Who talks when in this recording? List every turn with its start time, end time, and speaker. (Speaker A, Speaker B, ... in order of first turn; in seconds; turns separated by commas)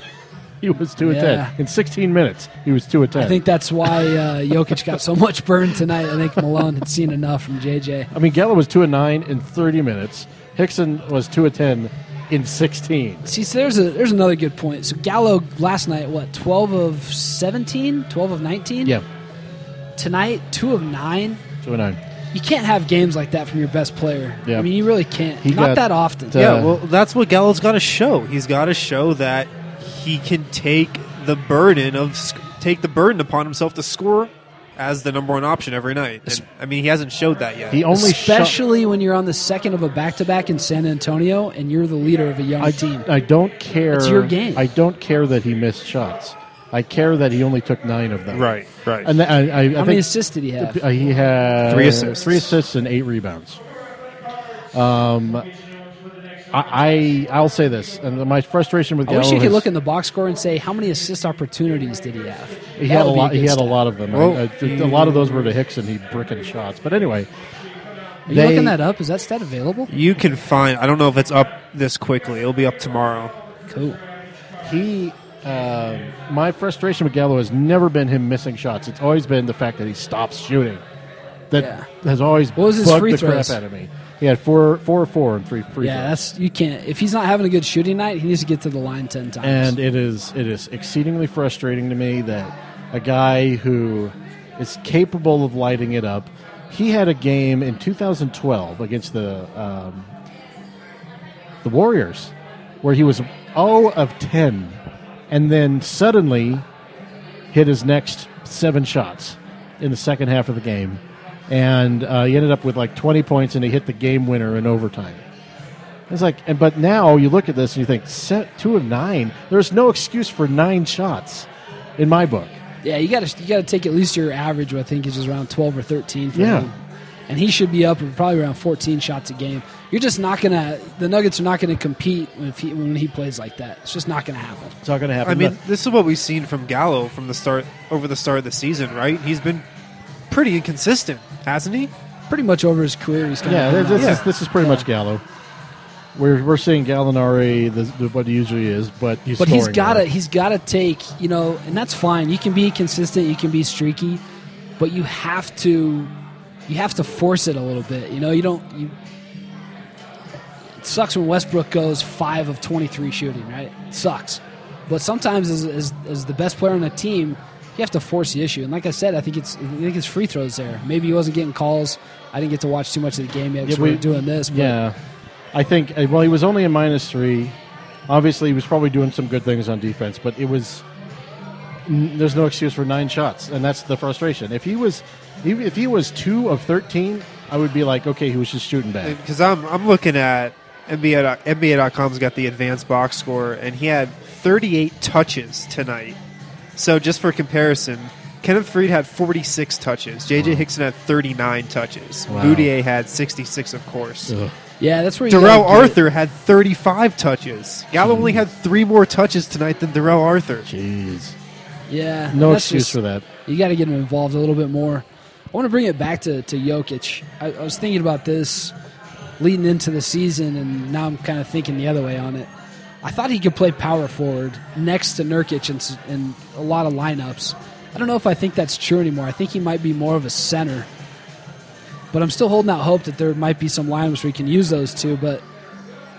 Speaker A: 0.6-3.4, Speaker B: 1.0-1.5, Speaker B: 3.1-8.1, Speaker A: 8.1-13.3, Speaker B: 13.2-19.0, Speaker B: 20.0-21.4, Speaker A: 21.6-22.0, Speaker B: 22.3-26.6, Speaker A: 24.4-24.7, Speaker A: 25.4-26.8, Speaker C: 26.4-37.9, Speaker A: 37.7-38.6, Speaker B: 37.9-43.1, Speaker A: 42.6-53.6, Speaker B: 43.9-44.7, Speaker C: 48.3-49.1, Speaker B: 49.8-50.8, Speaker C: 51.7-52.5, Speaker A: 54.7-55.5, Speaker A: 56.5-59.7, Speaker B: 59.1-63.8, Speaker A: 62.8-67.3, Speaker C: 64.1-65.6, Speaker A: 68.3-68.8, Speaker B: 68.3-69.9, Speaker C: 69.9-73.3, Speaker B: 73.7-74.0, Speaker A: 74.6-80.8, Speaker A: 81.5-86.2, Speaker B: 81.6-81.9, Speaker B: 82.6-83.6, Speaker B: 85.8-89.8, Speaker A: 89.4-100.1, Speaker A: 101.6-106.7, Speaker A: 107.5-115.2, Speaker A: 116.1-122.6, Speaker B: 122.8-126.8, Speaker A: 126.3-126.7, Speaker B: 127.3-134.8, Speaker A: 134.8-135.6, Speaker C: 135.2-139.6, Speaker C: 140.3-141.9, Speaker B: 142.3-144.9, Speaker A: 143.4-145.2, Speaker C: 144.0-144.3, Speaker A: 146.2-150.1, Speaker B: 149.4-154.2, Speaker B: 154.8-156.1, Speaker B: 156.7-159.0, Speaker B: 160.8-174.8, Speaker A: 173.6-175.0, Speaker A: 175.5-177.6, Speaker A: 178.1-180.8, Speaker A: 181.9-189.2, Speaker C: 189.0-196.2, Speaker C: 196.8-204.3, Speaker A: 200.3-200.7, Speaker A: 202.3-202.7, Speaker A: 204.3-204.6, Speaker B: 204.8-206.0, Speaker C: 205.3-210.7, Speaker A: 207.9-208.4, Speaker A: 210.7-211.4, Speaker B: 211.9-218.7, Speaker A: 212.3-213.2, Speaker B: 219.4-222.5, Speaker B: 223.0-230.9, Speaker B: 232.1-235.4